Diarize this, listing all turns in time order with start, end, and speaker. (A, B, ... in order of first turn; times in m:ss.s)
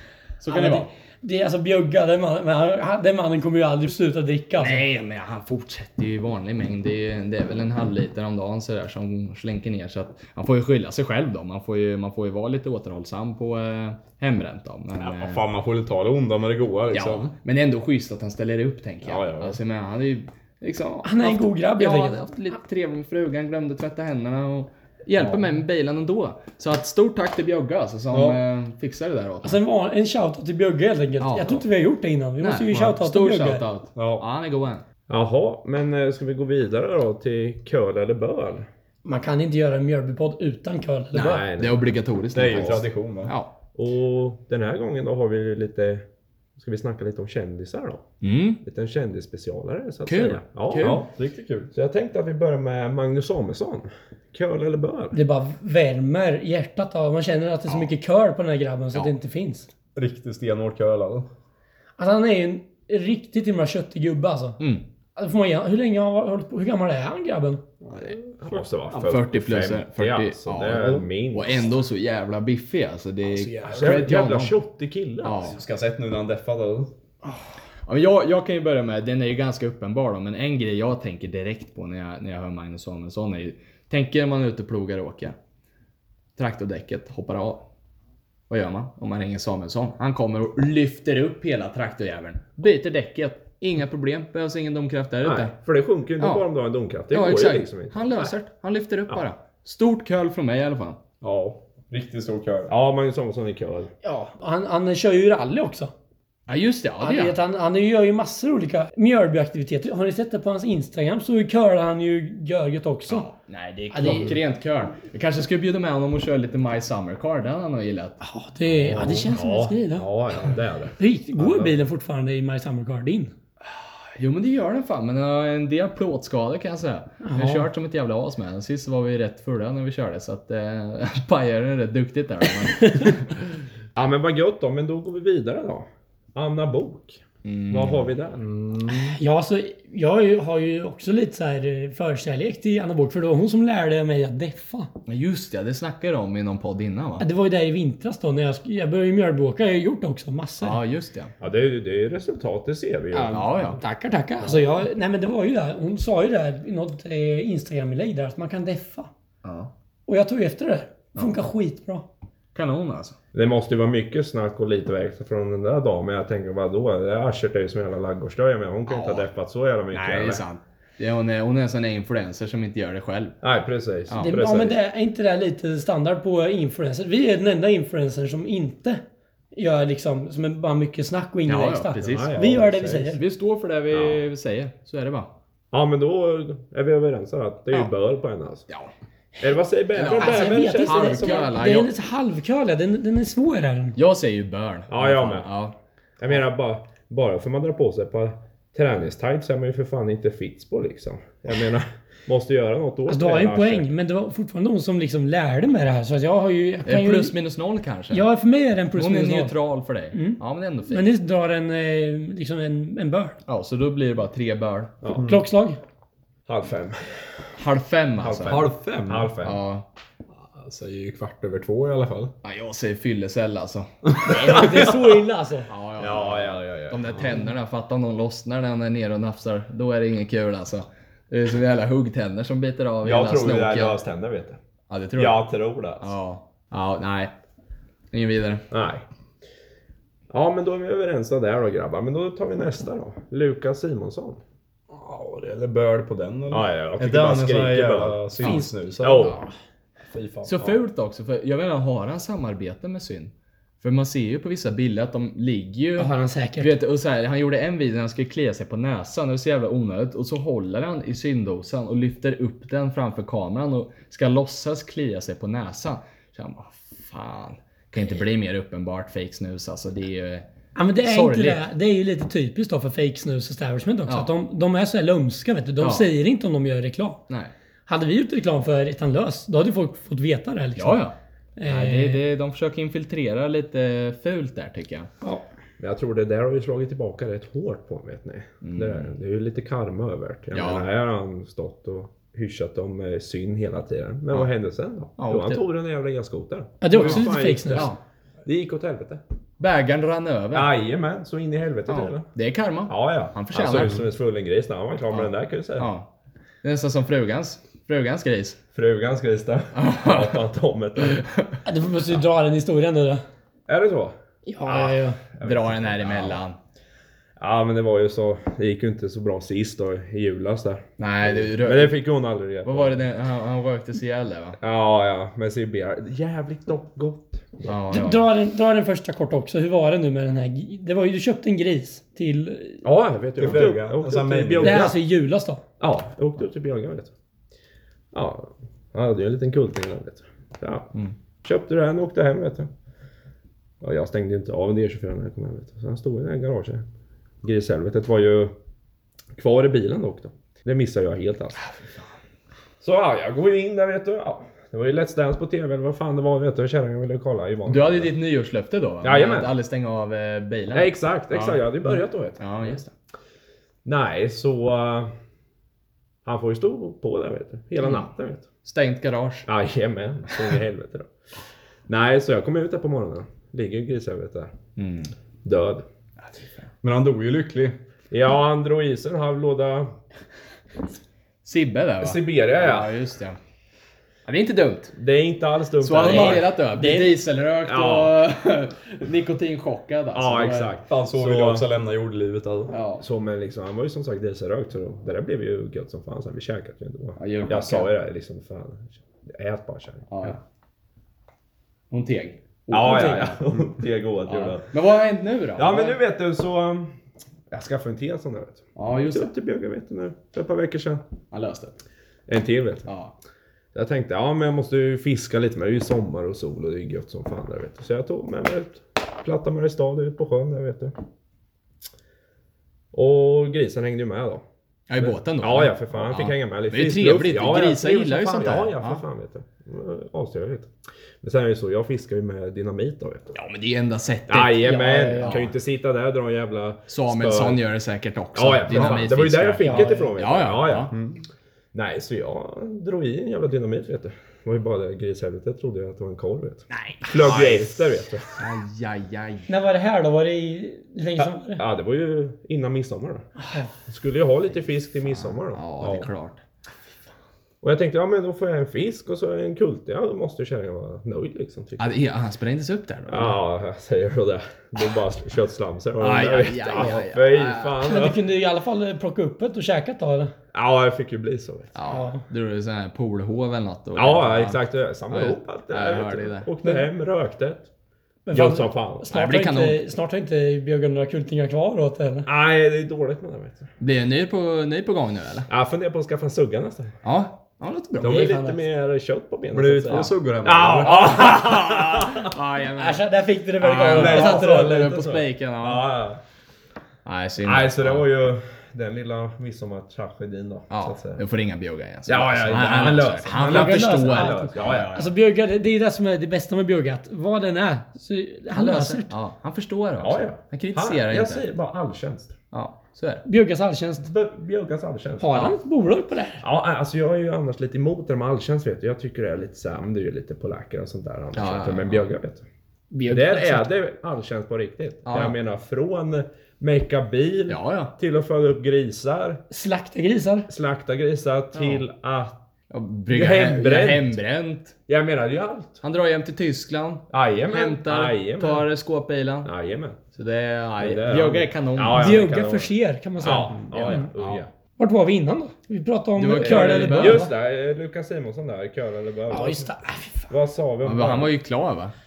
0:00.4-0:00.9 A
0:00.5-0:04.8 B
0:04.6-0:15.4 A
0:15.0-0:17.3 C
0:16.9-0:29.6 A
0:19.0-0:19.6 C
0:21.0-0:22.2 B
0:28.1-0:28.4 C
0:29.4-0:33.6 B
0:31.2-0:31.6 A
0:32.4-0:34.8 A
0:34.0-0:34.2 C
0:35.1-0:38.7 D
0:39.0-0:41.4 B
0:41.1-0:42.8 D
0:41.1-0:43.5 A
0:42.3-0:43.3 C
0:43.7-0:46.0 D
0:46.6-0:48.0 D
0:48.2-0:48.6 A
0:48.6-0:51.0 D
0:50.0-0:51.0 A
0:50.8-0:51.7 C
0:51.7-0:55.2 D
0:55.1-0:59.7 B
1:00.0-1:01.3 C
1:02.0-1:04.6 B
1:05.2-1:07.6 B
1:07.9-1:09.1 C
1:08.4-1:11.8 D
1:09.0-1:14.6 A
1:10.7-1:11.0 C
1:13.3-1:14.3 C
1:13.7-1:15.6 D
1:15.2-1:15.6 A
1:15.4-1:16.9 C
1:17.2-1:25.3 A
1:26.4-1:27.6 A
1:28.5-1:35.5 A
1:35.2-1:38.3 D
1:36.2-1:36.4 A
1:37.1-1:41.0 A
1:41.2-1:42.7 C
1:42.7-1:43.9 D
1:44.0-1:45.9 B
1:46.5-1:47.4 A
1:47.0-1:53.2 B
1:53.1-1:58.2 A
1:53.9-1:54.4 B
1:58.2-2:00.1 B
1:58.9-2:01.8 D
2:01.0-2:03.3 B
2:03.6-2:13.4 A
2:07.2-2:07.7 B
2:12.8-2:13.1 B
2:13.9-2:18.4 D
2:17.4-2:18.1 A
2:18.4-2:19.2 C
2:18.9-2:24.9 B
2:25.1-2:27.2 A
2:27.2-2:30.8 B
2:30.6-2:31.3 A
2:31.4-2:33.7 D
2:33.1-2:39.1 B
2:33.3-2:33.8 A
2:39.4-2:39.7 A
2:40.1-2:42.0 B
2:42.5-2:43.2 A
2:43.3-2:50.4 D
2:48.9-2:49.3 A
2:49.9-2:53.4 A
2:53.4-2:54.8 D
2:54.2-2:59.0 B
2:59.5-3:03.2 B
3:01.4-3:02.3 A
3:02.0-3:03.1 D
3:03.1-3:05.3 A
3:03.9-3:04.2 D
3:05.7-3:08.6 D
3:09.4-3:11.6 D
3:09.9-3:11.9 A
3:10.0-3:14.0 B
3:14.0-3:15.7 A
3:14.9-3:15.5 D
3:16.2-3:23.9 D
3:23.1-3:27.3 B
3:26.8-3:28.2 A
3:28.1-3:29.5 B
3:29.0-3:31.1 A
3:30.1-3:33.4 B
3:33.5-3:34.9 A
3:35.0-3:35.3 D
3:35.2-3:35.4 C
3:35.2-3:35.8 B
3:36.5-3:37.2 D
3:37.6-3:38.7 A
3:38.2-3:39.6 D
3:38.4-3:39.3 C
3:39.4-3:39.8 A
3:40.4-3:42.3 C
3:42.4-3:44.8 A
3:44.2-3:45.7 B
3:45.7-3:54.0 A
3:46.0-3:47.4 D
3:53.0-3:54.6 D
3:54.9-3:55.4 A
3:55.2-3:56.1 D
3:56.0-3:57.3 A
3:58.1-3:58.6 A
3:58.7-3:59.0 D
4:00.3-4:04.4 D
4:04.9-4:09.4 C
4:06.5-4:09.4 D
4:08.4-4:08.7 B
4:10.1-4:10.8 C
4:10.4-4:30.4 A
4:16.0-4:16.7 B
4:30.8-4:37.2 B
4:31.0-4:31.6 A
4:35.8-4:36.1 A
4:37.9-4:41.0 B
4:40.8-4:41.1 A
4:41.6-4:42.2 B
4:41.7-4:45.1 A
4:45.8-4:59.2 D
4:48.6-4:49.1 A
4:50.5-4:50.8 A
4:55.2-4:55.6 A
4:56.8-4:57.9 B
4:56.9-4:58.0 A
4:59.6-5:00.7 A
5:00.5-5:02.3 D
5:01.9-5:04.0 A
5:02.9-5:05.9 D
5:05.1-5:06.1 A
5:06.6-5:08.6 A
5:08.7-5:11.2 D
5:09.7-5:10.4 A
5:11.0-5:11.6 A
5:11.6-5:13.2 B
5:13.7-5:16.4 D
5:14.4-5:15.2 B
5:15.4-5:16.6 A
5:17.4-5:23.0 D
5:21.0-5:22.0 A
5:22.6-5:24.6 A
5:24.6-5:27.7 D
5:27.6-5:28.2 A
5:27.9-5:32.8 B
5:32.8-5:35.0 D
5:33.4-5:34.9 C
5:34.6-5:35.6 B
5:35.8-5:37.1 D
5:38.1-5:40.9 D
5:41.4-5:42.7 D
5:43.8-5:46.8 D
5:47.4-5:48.5 D
5:49.4-5:51.6 D
5:51.6-5:52.1 A
5:52.8-5:58.1 D
5:57.6-6:02.9 A
5:59.0-5:59.5 D
6:00.7-6:02.8 D
6:03.8-6:05.1 D
6:06.2-6:08.4 D
6:07.8-6:08.1 A
6:08.6-6:09.5 A
6:09.5-6:11.1 D
6:11.9-6:14.5 D
6:14.8-6:15.1 A
6:15.4-6:15.8 D
6:16.2-6:16.7 A
6:16.8-6:17.8 C
6:18.1-6:20.0 D
6:21.4-6:23.4 A
6:22.0-6:22.9 D
6:24.2-6:24.9 A
6:25.0-6:27.1 D
6:25.8-6:30.7 A
6:27.6-6:28.2 D
6:30.1-6:31.6 D
6:30.9-6:32.7 C
6:32.7-6:33.0 A
6:33.0-6:40.3 D
6:37.2-6:37.9 A
6:40.1-6:40.4 A
6:41.9-6:43.4 A
6:42.7-6:44.7 D
6:42.8-6:43.2 B
6:44.2-6:46.0 A
6:45.6-6:46.9 D
6:47.5-6:51.0 D
6:48.8-6:49.3 A
6:51.3-6:51.8 A
6:52.3-6:52.9 D
6:52.8-6:53.1 A
6:53.7-7:00.9 D
7:02.9-7:04.4 D
7:04.9-7:09.0 A
7:05.0-7:10.7 D
7:11.2-7:13.4 D
7:13.3-7:15.5 A
7:14.3-7:17.6 D
7:14.6-7:15.4 B
7:16.9-7:20.9 A
7:18.3-7:21.0 D
7:19.6-7:20.1 B
7:20.9-7:21.2 C
7:21.7-7:28.3 D
7:26.7-7:29.5 A
7:29.5-7:31.6 B
7:31.2-7:33.3 D
7:33.4-7:33.7 B
7:33.9-7:36.1 D
7:35.0-7:36.4 A
7:37.6-7:42.0 D
7:41.8-7:43.4 A
7:43.1-7:48.2 D
7:46.0-7:47.8 A
7:47.8-7:50.3 B
7:50.5-7:51.7 D
7:51.7-7:56.5 A
7:51.9-7:52.2 B
7:53.9-7:57.7 D
7:58.2-8:02.3 B
7:58.3-7:59.1 D
7:59.1-7:59.8 A
8:02.2-8:03.7 D
8:03.8-8:05.5 A
8:05.5-8:06.9 D
8:07.0-8:08.4 A
8:08.0-8:12.3 D
8:08.0-8:08.6 B
8:09.5-8:11.1 C
8:10.8-8:13.0 A
8:12.8-8:14.8 B
8:13.6-8:15.9 A
8:13.9-8:16.2 D
8:17.0-8:18.1 A
8:17.4-8:21.2 D
8:20.7-8:25.1 A
8:22.1-8:25.1 D
8:23.3-8:29.1 B
8:28.5-8:31.5 A
8:30.0-8:32.3 D
8:32.5-8:33.2 A
8:33.2-8:34.1 B
8:34.0-8:35.6 D
8:35.2-8:36.4 B
8:36.4-8:42.4 D
8:41.3-8:42.1 A
8:42.9-8:43.7 B
8:43.1-8:49.4 D
8:45.0-8:45.4 A
8:47.5-8:47.9 A
8:49.5-8:50.5 B
8:50.5-8:52.4 D
8:51.5-8:51.8 A
8:52.7-8:54.7 A
8:53.1-8:54.2 D
8:54.9-8:55.8 D
8:55.8-8:59.5 A
8:57.1-8:58.7 D
8:59.4-9:00.0 D
9:00.1-9:02.3 A
9:00.8-9:04.5 D
9:01.9-9:04.1 B
9:03.7-9:04.4 A
9:04.8-9:07.3 B
9:06.2-9:07.3 A
9:06.4-9:09.7 D
9:09.3-9:10.3 B
9:10.3-9:11.3 D
9:10.8-9:11.9 A